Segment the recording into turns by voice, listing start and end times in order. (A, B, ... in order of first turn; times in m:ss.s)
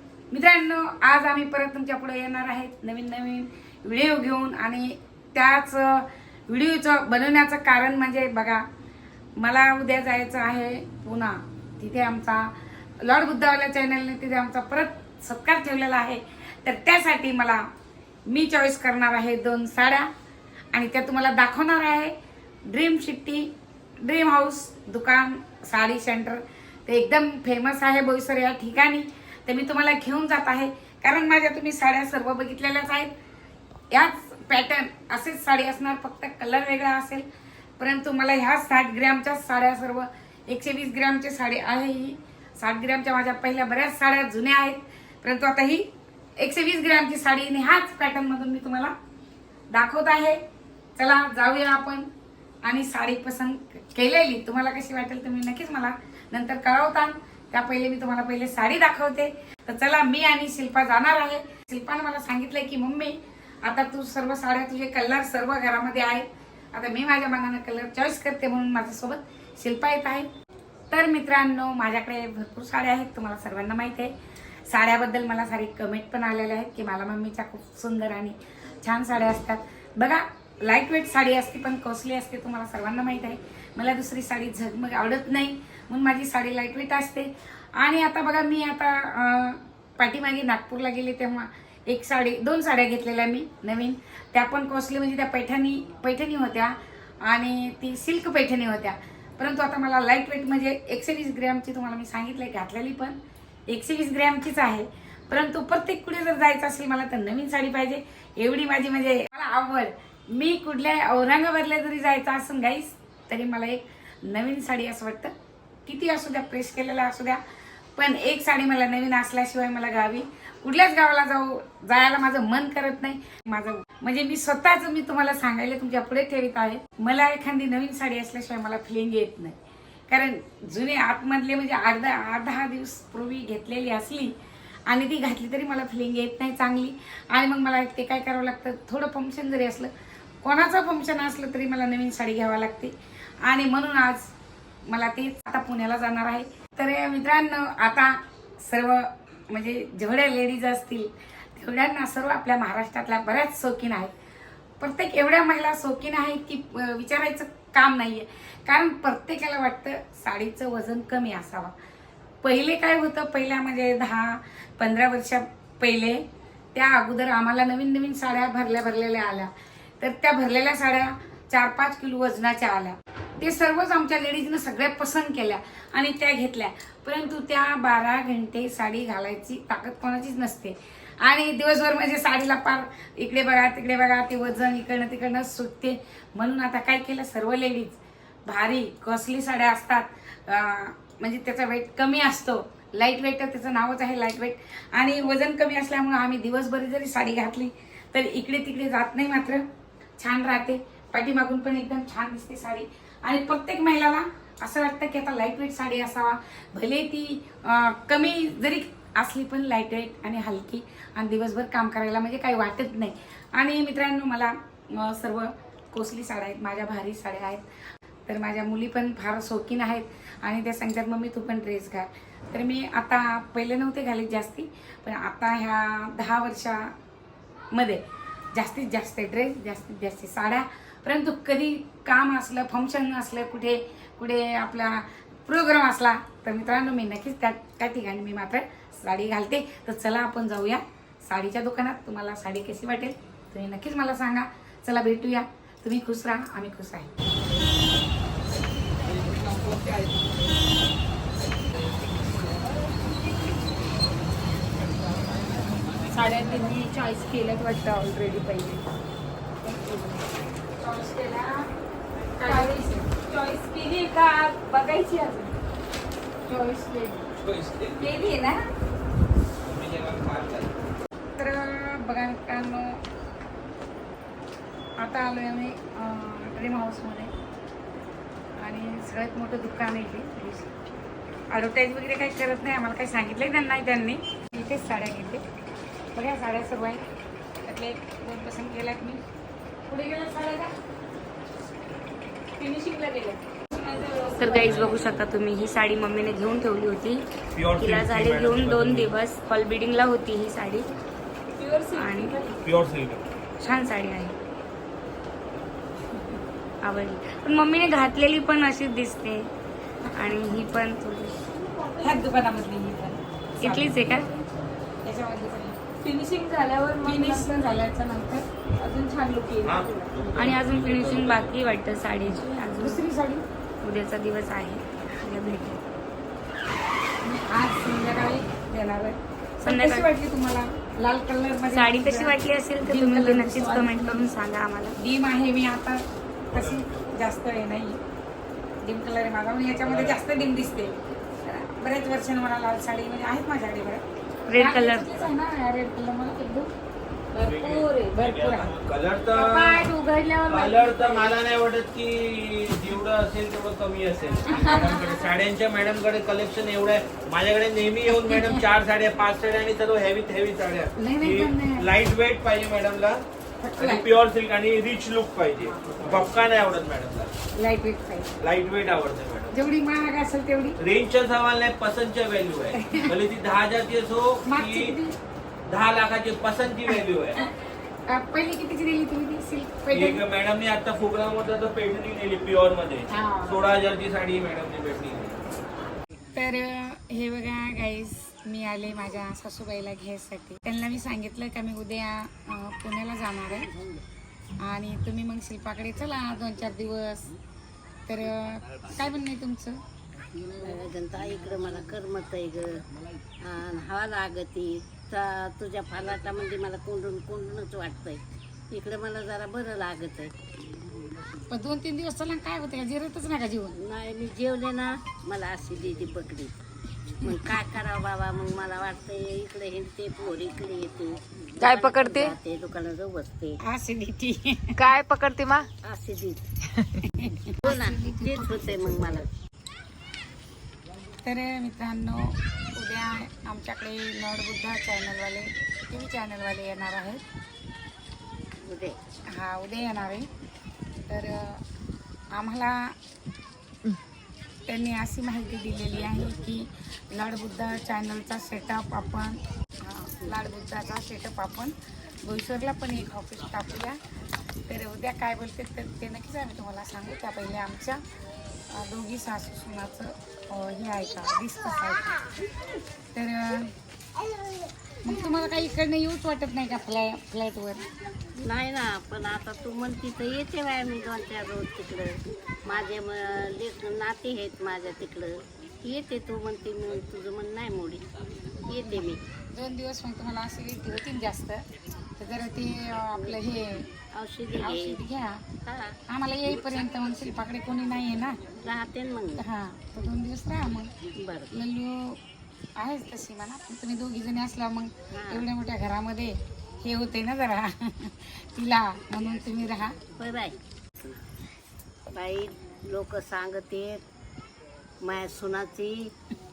0:00.3-0:08.6 A
0:09.4-0:17.6 A
0:18.3-0:20.1 A
0:20.7-0:22.1 A
0:22.7-0:33.1 A
0:33.9-0:37.2 A
0:37.8-0:45.9 A
0:46.4-0:48.9 A
0:49.7-0:50.4 A
0:51.0-0:52.1 A
0:52.6-1:10.3 A
1:10.9-1:14.1 A
1:14.7-1:43.2 A
1:43.7-1:55.3 A
1:55.8-1:57.4 A
1:58.0-2:09.6 A
2:10.1-2:14.3 A
2:14.9-2:19.9 A
2:20.4-2:24.3 A
2:24.9-2:34.1 A
2:34.8-2:41.7 A
2:42.4-2:46.2 A
2:46.7-3:19.6 A
3:20.2-3:37.6 A
3:38.3-3:46.9 A
3:47.7-4:07.2 A
4:09.1-4:10.2 B
4:16.1-4:18.8 B
4:16.2-4:16.8 A
4:19.7-4:20.2 B
4:20.8-4:21.6 A
4:22.4-4:23.1 A
4:22.4-4:25.5 B
4:26.5-4:27.1 A
4:26.8-4:27.2 B
4:27.4-4:28.4 C
4:28.0-4:28.7 B
4:29.6-4:30.7 C
4:31.4-4:33.0 A
4:35.0-4:37.3 A
4:38.6-4:40.7 A
4:41.5-4:45.4 A
4:46.1-4:47.0 A
4:47.6-4:49.2 A
4:49.9-4:50.7 A
4:52.6-4:55.2 B
4:54.4-5:00.9 D
4:57.5-4:59.1 C
5:01.6-5:02.6 B
5:01.9-5:02.4 D
5:02.6-5:03.3 C
5:03.6-5:04.3 D
5:06.8-5:09.5 D
5:10.1-5:11.4 D
5:11.7-5:12.3 B
5:12.0-5:14.0 A
5:13.6-5:14.3 D
5:14.0-5:14.5 B
5:15.0-5:15.8 A
5:16.0-5:17.7 B
5:17.0-5:18.4 A
5:18.8-5:20.4 B
5:19.6-5:21.5 C
5:20.4-5:23.0 D
5:22.8-5:23.4 A
5:23.8-5:25.8 D
5:27.2-5:34.2 A
5:29.6-5:30.1 D
5:31.7-5:34.9 D
5:35.0-5:38.0 A
5:36.5-5:37.1 C
5:38.8-5:46.7 A
5:39.8-5:40.8 C
5:44.5-5:45.2 D
5:47.4-5:48.2 B
5:47.4-5:49.9 C
5:48.1-5:48.7 A
5:49.4-5:50.9 A
5:50.5-6:03.2 C
5:54.4-5:55.0 A
5:58.1-5:58.6 A
6:01.0-6:01.9 A
6:03.6-6:04.0 A
6:03.8-6:07.3 C
6:07.6-6:08.3 A
6:08.4-6:09.6 C
6:09.5-6:10.8 A
6:10.8-6:14.9 C
6:12.7-6:13.1 A
6:14.5-6:15.2 A
6:15.7-6:17.4 C
6:16.9-6:17.5 A
6:18.1-6:20.2 A
6:19.9-6:25.4 C
6:23.1-6:23.6 A
6:26.3-6:33.7 A
6:34.6-6:37.3 A
6:38.1-6:39.8 A
6:40.6-6:42.8 E
6:43.4-6:50.3 E
6:51.5-6:53.8 A
6:53.8-6:56.5 E
6:57.2-7:03.6 E
7:01.6-7:02.3 B
7:03.6-7:04.9 A
7:04.8-7:05.7 B
7:05.8-7:06.4 E
7:07.1-7:09.0 A
7:07.6-7:09.3 E
7:11.2-7:17.2 A
7:18.6-7:19.0 E
7:19.3-7:20.3 A
7:21.1-7:21.6 A
7:22.3-7:22.9 A
7:24.6-7:34.0 A
7:34.7-7:38.0 A
7:38.7-7:42.3 A
7:43.1-7:43.7 A
7:45.0-7:47.8 A
7:48.4-7:58.1 E
7:58.6-7:59.2 E
7:59.5-8:03.9 A
8:04.1-8:05.0 E
8:04.6-8:05.4 A
8:05.6-8:06.0 E
8:06.1-8:08.4 A
8:08.6-8:09.4 E
8:09.4-8:10.9 A
8:11.1-8:11.5 E
8:11.5-8:12.2 A
8:12.8-8:20.0 A
8:15.1-8:15.5 E
8:20.1-8:21.2 E
8:22.1-8:24.0 E
8:25.0-8:26.1 E